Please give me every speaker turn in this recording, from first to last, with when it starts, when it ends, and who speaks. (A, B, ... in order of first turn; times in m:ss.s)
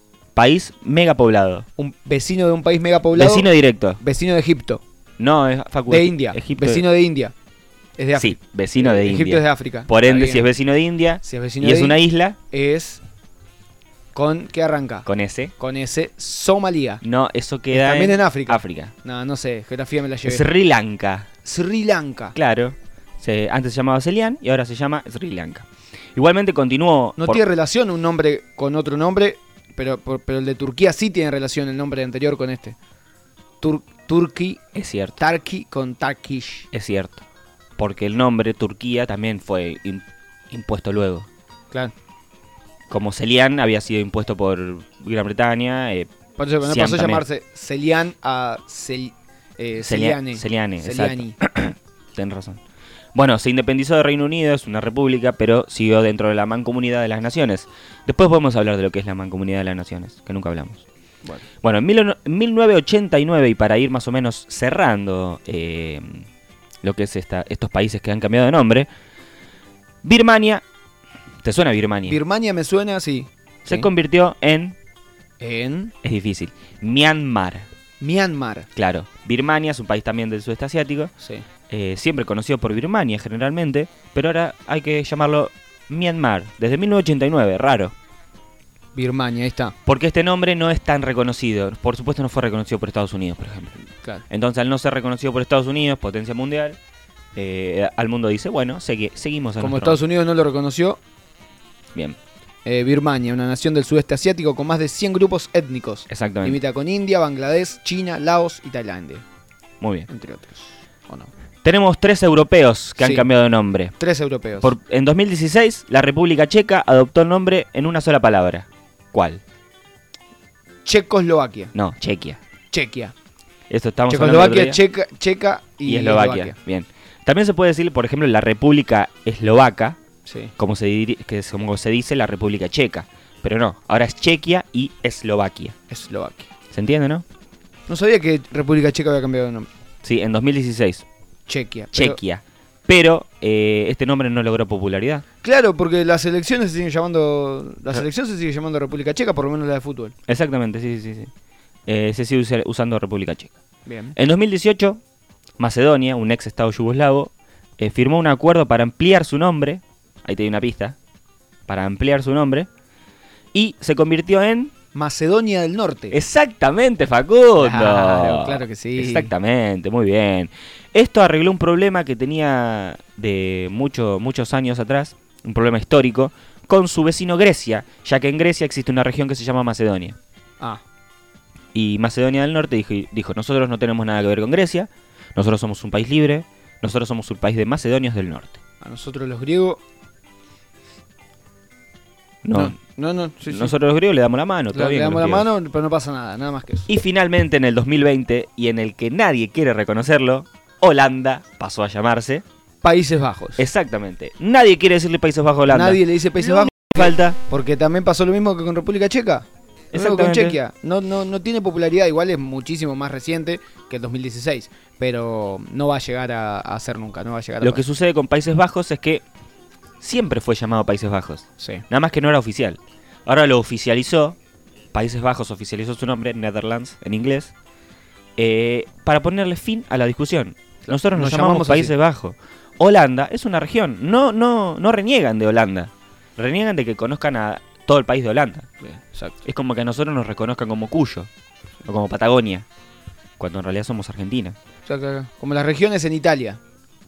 0:00.4-0:01.6 A
0:01.8-0:04.8 B
0:03.1-0:04.0 A
0:05.2-0:06.8 A
0:05.9-0:07.3 B
0:08.0-0:10.5 B
0:08.1-0:12.4 A
0:11.2-0:12.0 B
0:12.5-0:13.0 B
0:14.1-0:15.1 B
0:15.0-0:15.5 A
0:15.6-0:17.0 B
0:17.0-0:18.9 A
0:17.7-0:20.4 B
0:20.2-0:21.3 A
0:21.4-0:22.4 B
0:22.3-0:27.4 A
0:27.2-0:32.8 B
0:33.6-0:34.6 B
0:34.7-0:35.2 A
0:35.2-0:36.7 B
0:36.7-0:37.2 A
0:37.8-0:41.3 A
0:42.9-0:46.1 A
0:46.4-0:51.4 B
0:46.6-0:47.2 A
0:49.8-0:52.6 A
0:53.1-1:00.8 A
1:01.6-1:06.3 A
1:06.8-1:08.9 A
1:10.0-1:10.6 A
1:11.4-1:12.2 A
1:12.0-1:13.9 B
1:13.6-1:14.7 A
1:15.4-1:15.9 B
1:16.0-1:17.7 A
1:18.0-1:18.7 B
1:18.8-1:21.1 A
1:21.2-1:21.4 B
1:21.7-1:27.9 A
1:28.9-1:29.7 B
1:29.8-1:36.8 A
1:37.3-1:40.0 A
1:39.6-1:41.0 B
1:42.6-1:49.2 B
1:46.1-1:46.6 A
1:49.8-1:50.1 A
1:50.1-1:51.3 B
1:51.6-1:53.9 A
1:53.0-1:53.3 B
1:54.0-1:54.7 B
1:54.6-1:59.4 A
2:00.8-2:01.7 B
2:01.7-2:02.4 A
2:02.7-2:03.1 B
2:03.7-2:04.8 A
2:04.1-2:06.5 B
2:05.8-2:10.0 A
2:10.2-2:10.5 B
2:10.6-2:15.8 A
2:15.9-2:16.5 B
2:16.7-2:17.2 A
2:17.9-2:19.7 B
2:20.0-2:21.0 A
2:21.5-2:22.2 B
2:21.9-2:25.2 A
2:25.4-2:30.1 B
2:30.3-2:31.3 A
2:31.9-2:33.5 A
2:33.8-2:34.2 B
2:34.2-2:35.0 A
2:35.6-2:41.0 A
2:41.7-2:42.7 A
2:43.5-2:44.7 A
2:44.9-2:46.2 B
2:46.1-3:00.2 A
2:47.6-2:49.3 B
3:01.7-3:08.6 A
3:08.8-3:09.8 B
3:12.4-3:12.8 A
3:12.5-3:13.7 B
3:13.5-3:15.5 A
3:14.7-3:16.9 B
3:16.9-3:22.4 A
3:22.8-3:23.6 B
3:23.6-3:27.4 A
3:25.7-3:37.8 B
3:29.9-3:30.6 A
3:37.6-3:39.2 A
3:40.0-3:44.4 A
3:41.6-3:41.8 B
3:44.9-3:47.5 A
3:48.4-3:58.7 A
3:50.9-3:51.9 B
3:58.8-3:59.4 B
3:59.4-4:01.3 A
4:01.8-4:02.6 A
4:03.4-4:04.6 A
4:04.8-4:06.6 B